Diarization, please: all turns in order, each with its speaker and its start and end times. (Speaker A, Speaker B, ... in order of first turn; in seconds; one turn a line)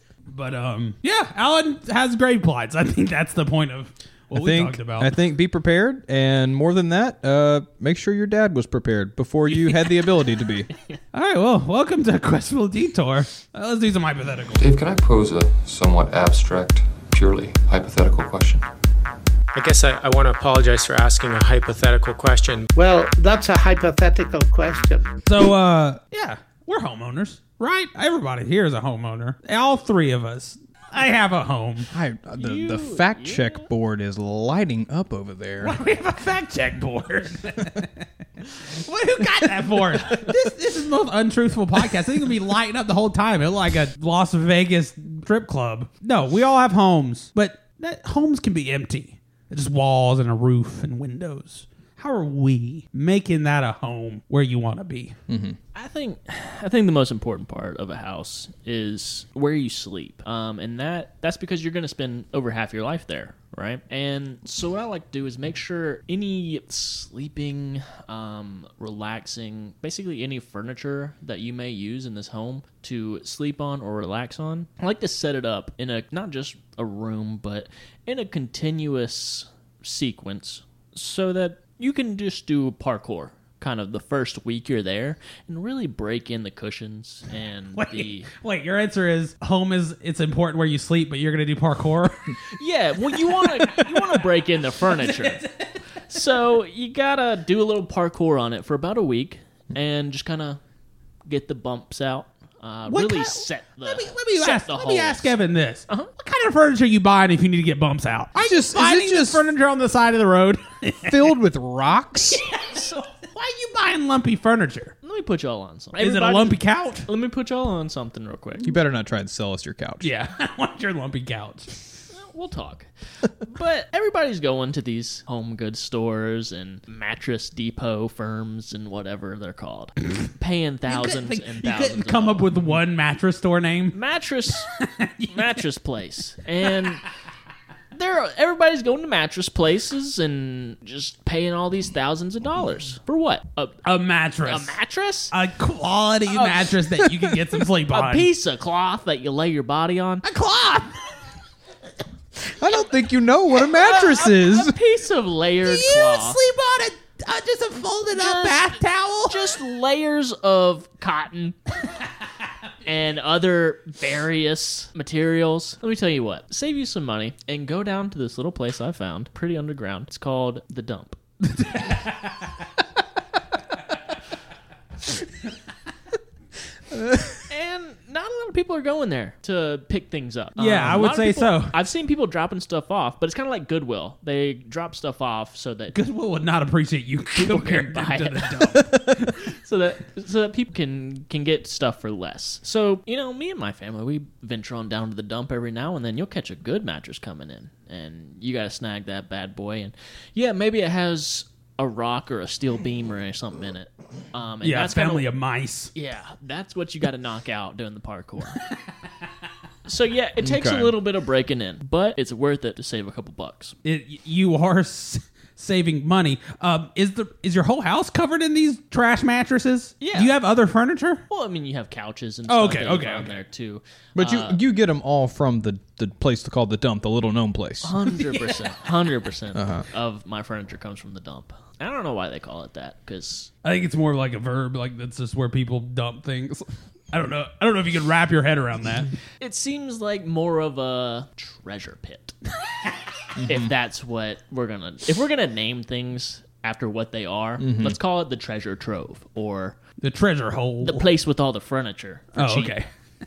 Speaker A: 0.3-5.1
Speaker B: 4.3-10.7
Speaker A: 11.1-14.7
Speaker C: 14.6-18.6
Speaker D: 19.5-22.7
Speaker E: 22.8-25.1
Speaker A: 25.3-31.9
Speaker B: 31.9-35.8
Speaker F: 32.4-33.7
Speaker A: 35.6-37.9
Speaker A: 38.5-55.2
Speaker B: 55.3-55.6
Speaker F: 55.8-88.3
Speaker A: 87.8-92.4
Speaker F: 92.5-95.5
Speaker A: 93.1-94.3
Speaker A: 94.8-96.2
Speaker F: 96.1-100.6
Speaker F: 101.3-105.3
Speaker A: 102.9-111.3
Speaker B: 108.4-109.4
Speaker B: 111.0-112.4
Speaker A: 112.5-115.0
Speaker F: 112.6-113.0
Speaker F: 115.0-118.8
Speaker A: 116.0-117.1
Speaker B: 118.6-120.1
Speaker A: 120.0-121.8
Speaker F: 122.1-132.5
Speaker A: 130.9-134.0
Speaker F: 133.9-134.7
Speaker A: 134.8-135.6
Speaker F: 135.3-137.0
Speaker F: 137.9-143.8
Speaker A: 143.8-144.8
Speaker F: 144.4-145.3
Speaker A: 145.3-148.3
Speaker F: 146.3-146.7
Speaker F: 147.9-150.3
Speaker A: 150.2-151.0
Speaker B: 152.5-154.8
Speaker F: 153.8-156.4
Speaker A: 155.6-159.5
Speaker F: 158.1-158.7
Speaker F: 159.3-161.6
Speaker F: 162.8-171.2
Speaker A: 171.5-172.4
Speaker F: 177.5-185.9
Speaker A: 180.6-181.8
Speaker A: 185.9-189.4
Speaker F: 187.4-205.3
Speaker A: 204.6-205.9
Speaker F: 205.9-208.6
Speaker F: 209.9-213.8
Speaker B: 210.4-211.0
Speaker A: 213.8-221.2
Speaker F: 220.0-220.3
Speaker F: 221.3-224.6
Speaker A: 222.5-223.3
Speaker B: 224.2-228.0
Speaker F: 227.8-233.5
Speaker A: 228.1-228.8
Speaker B: 229.6-229.8
Speaker A: 233.6-239.1
Speaker F: 239.4-242.3
Speaker B: 243.4-243.7
Speaker F: 243.4-249.8
Speaker B: 247.6-248.0
Speaker A: 250.0-251.1
Speaker F: 250.8-252.8
Speaker A: 252.4-252.9